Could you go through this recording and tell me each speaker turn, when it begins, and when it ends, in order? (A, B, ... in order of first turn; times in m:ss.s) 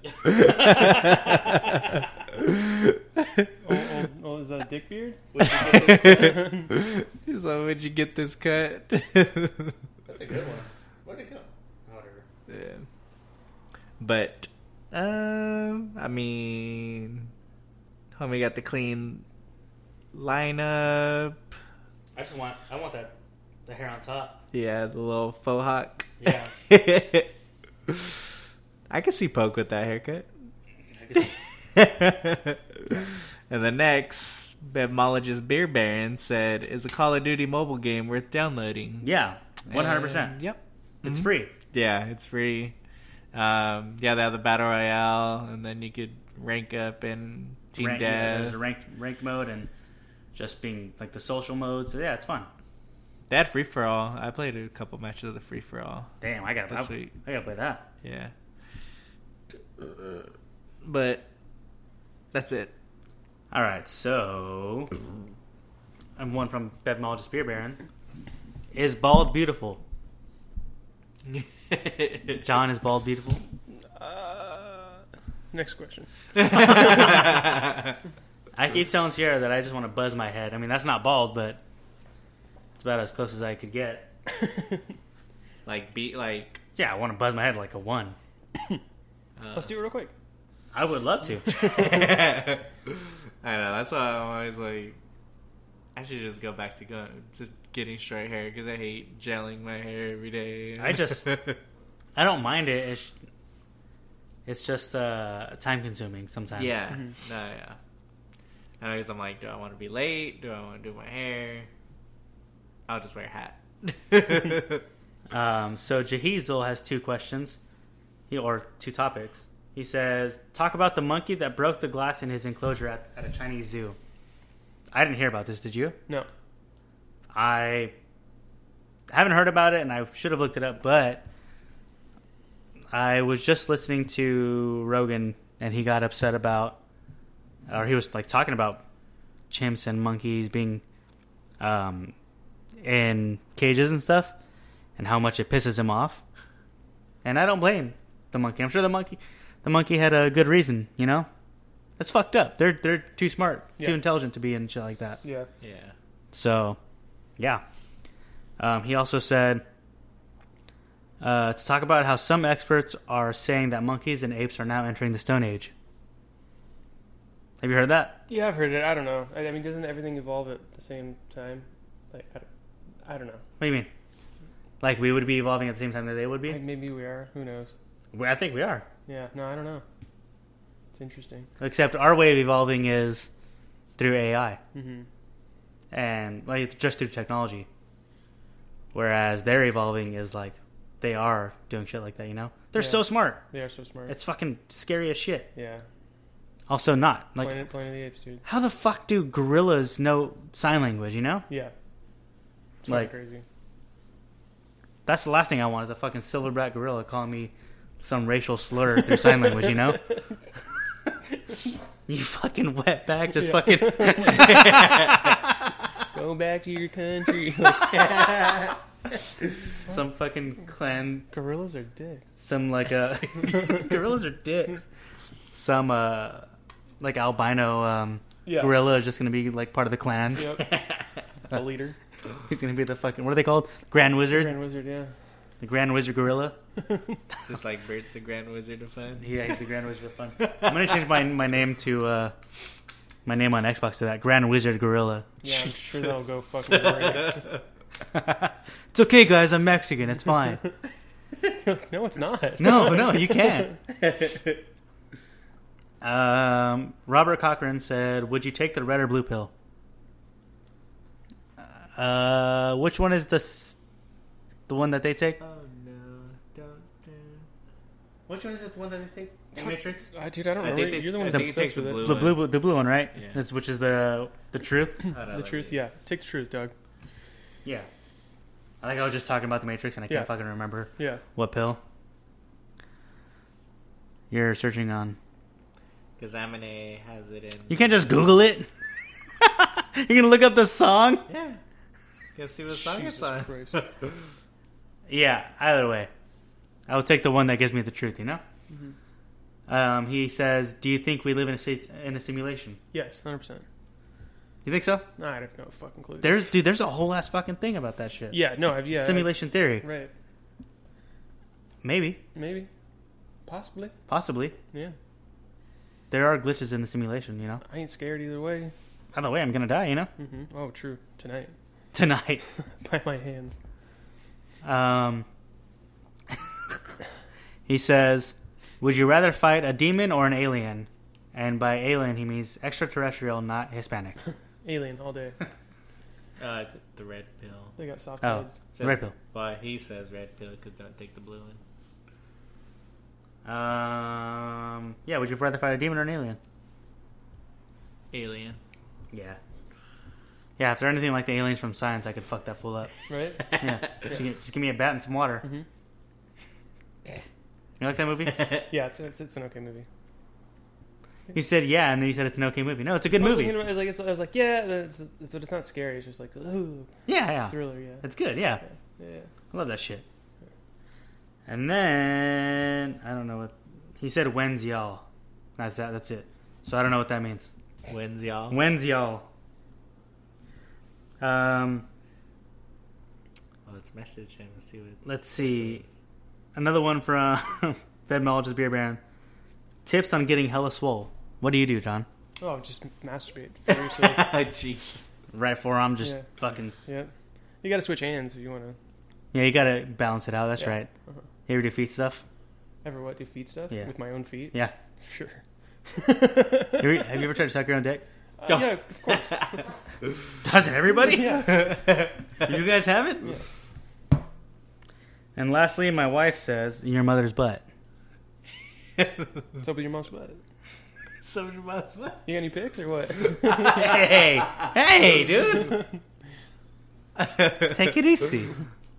0:00.2-0:01.9 A
0:00.3-0:01.2 B
0:03.2-0:03.5 A
0:03.6-0:06.7 C
0:05.3-0:06.4 B
0:05.4-0:09.8 A
0:10.1-0:12.2 B
0:12.5-0:12.9 A
0:14.0-0:17.3 A
0:18.2-0:19.2 A
0:20.1-0:21.4 A
0:22.2-0:23.1 B
0:23.6-0:24.4 B
0:24.5-0:27.3 A
0:26.2-0:26.5 B
0:28.9-0:30.3 A
0:30.9-0:31.3 B
0:31.2-0:39.1 A
0:39.0-0:40.4 B
0:39.6-0:42.8 A
0:41.0-0:41.5 B
0:43.3-0:48.6 A
0:47.8-0:49.7 B
0:50.4-0:52.5 B
0:53.3-0:56.2 A
0:56.2-0:57.9 B
0:56.7-0:57.2 A
0:58.0-0:58.3 A
0:59.8-1:00.2 A
1:00.8-1:01.3 A
1:02.3-1:02.7 A
1:03.5-1:05.0 B
1:06.2-1:07.8 B
1:08.7-1:09.8 B
1:11.3-1:12.4 A
1:12.4-1:13.4 B
1:13.8-1:17.4 C
1:16.4-1:17.9 A
1:18.5-1:21.6 B
1:22.8-1:24.1 B
1:25.6-1:26.6 A
1:26.8-1:28.2 B
1:29.4-1:29.7 A
1:29.5-1:30.1 C
1:30.7-1:31.5 B
1:31.5-1:35.0 A
1:36.0-1:41.6 A
1:40.8-1:41.3 B
1:42.2-1:43.1 B
1:44.4-1:46.9 B
1:46.6-1:47.8 A
1:48.8-1:51.7 A
1:52.9-1:54.8 A
1:55.3-1:57.6 B
1:58.3-2:04.0 B
2:04.9-2:06.0 B
2:07.3-2:07.9 B
2:09.1-2:11.3 B
2:12.9-2:16.8 B
2:17.7-2:18.8 B
2:19.5-2:20.8 B
2:21.6-2:22.1 B
2:22.8-2:24.3 B
2:25.0-2:26.2 B
2:27.2-2:31.3 B
2:32.0-2:35.2 B
2:35.2-2:35.5 C
2:35.6-2:35.9 A
2:36.3-2:36.8 B
2:38.6-2:39.6 B
2:41.2-2:45.7 B
2:47.6-2:48.2 B
2:48.3-2:52.5 C
2:53.0-2:53.4 C
2:53.6-2:53.9 B
2:54.8-2:56.6 B
2:56.5-2:57.7 C
2:58.1-2:58.9 B
2:59.1-2:59.8 C
3:00.9-3:01.5 C
3:01.6-3:03.3 B
3:04.0-3:04.6 B
3:04.7-3:05.1 C
3:05.9-3:07.7 B
3:08.9-3:13.4 B
3:12.8-3:14.1 C
3:14.1-3:15.5 B
3:15.6-3:15.8 C
3:16.7-3:17.6 B
3:17.4-3:18.4 C
3:18.4-3:21.5 B
3:22.9-3:23.4 C
3:22.9-3:23.1 B
3:25.1-3:30.1 B
3:29.4-3:29.7 C
3:32.1-3:35.3 B
3:33.4-3:34.8 C
3:34.4-3:35.2 A
3:36.1-3:38.1 C
3:37.7-3:38.8 A
3:39.9-3:41.3 B
3:41.3-3:42.3 C
3:42.4-3:44.8 B
3:43.6-3:43.8 C
3:45.5-3:46.5 B
3:47.0-3:50.5 B
3:48.4-3:48.7 C
3:50.4-3:50.7 C
3:50.4-3:51.2 A
3:51.5-3:52.0 C
3:52.5-3:54.6 B
3:54.3-3:55.1 C
3:55.6-3:56.6 B
3:56.9-3:57.2 C
3:57.5-3:59.4 A
3:59.2-4:02.3 B
4:00.4-4:01.0 A
4:03.3-4:05.3 B
4:05.4-4:07.5 C
4:05.4-4:07.6 A
4:08.1-4:10.6 B
4:11.6-4:13.8 C
4:12.6-4:13.7 B
4:14.0-4:14.6 A
4:16.0-4:19.5 B
4:22.0-4:23.8 B
4:24.7-4:25.4 B
4:25.4-4:27.5 A
4:28.3-4:30.1 B
4:29.6-4:32.3 C
4:30.6-4:32.5 A
4:31.3-4:35.1 B
4:33.1-4:33.4 A
4:35.1-4:35.8 A
4:35.3-4:36.7 C
4:38.8-4:41.8 B
4:41.0-4:41.2 C
4:44.3-4:45.2 B
4:46.2-4:48.2 A
4:47.7-4:48.7 B
4:49.4-4:51.2 B
4:51.3-4:51.6 A
4:52.4-4:54.1 A
4:52.7-4:53.8 C
4:55.1-4:56.1 B
4:56.9-4:58.4 B
4:58.7-4:59.0 C
4:59.7-5:02.8 B
5:02.9-5:03.6 C
5:04.6-5:05.1 B
5:05.2-5:06.5 C
5:06.2-5:08.4 B
5:08.3-5:10.1 C
5:08.9-5:09.9 B
5:11.8-5:12.2 B
5:12.4-5:12.7 C
5:13.4-5:14.0 C
5:14.1-5:14.6 B
5:16.1-5:17.6 B
5:17.6-5:18.7 C
5:19.1-5:20.1 B
5:20.2-5:21.5 C
5:21.9-5:22.4 B
5:22.8-5:23.6 C
5:24.6-5:25.3 B
5:27.7-5:34.2 B
5:34.6-5:35.4 C
5:36.4-5:37.8 A
5:37.8-5:38.6 C
5:38.2-5:39.2 B
5:38.7-5:41.6 A
5:43.4-5:46.4 B
5:48.1-5:48.6 A
5:49.1-5:49.4 B
5:50.6-5:52.9 B
5:53.1-5:54.2 C
5:53.5-5:53.9 A
5:53.5-5:55.5 B
5:57.8-5:58.5 B
5:58.4-5:58.6 A
5:58.7-5:59.9 C
6:01.3-6:03.6 B
6:03.2-6:06.9 C
6:07.1-6:08.6 B
6:07.5-6:08.0 C
6:08.6-6:09.3 C
6:09.5-6:10.0 B
6:11.5-6:15.0 B
6:15.6-6:17.5 B
6:17.9-6:18.6 A
6:18.5-6:19.3 B
6:21.2-6:21.9 B
6:23.6-6:25.9 A
6:25.0-6:25.8 B
6:26.6-6:29.0 B
6:29.9-6:32.1 B
6:32.4-6:34.3 C
6:33.7-6:35.1 A
6:35.3-6:36.7 B
6:36.8-6:37.1 C
6:37.6-6:38.8 C
6:39.3-6:40.9 B
6:40.6-6:41.2 C
6:41.5-6:42.2 B
6:42.8-6:47.1 C
6:46.7-6:48.7 B
6:48.4-6:49.6 C
6:50.4-6:51.7 B
6:51.0-6:51.7 C
6:51.6-6:52.1 A
6:52.4-6:53.3 B
6:55.4-6:57.6 B
6:59.0-6:59.4 A
6:59.6-7:00.4 C
7:01.2-7:02.3 A
7:02.3-7:03.9 C
7:03.4-7:04.7 A
7:03.6-7:05.8 B
7:07.2-7:08.0 A
7:07.7-7:08.5 B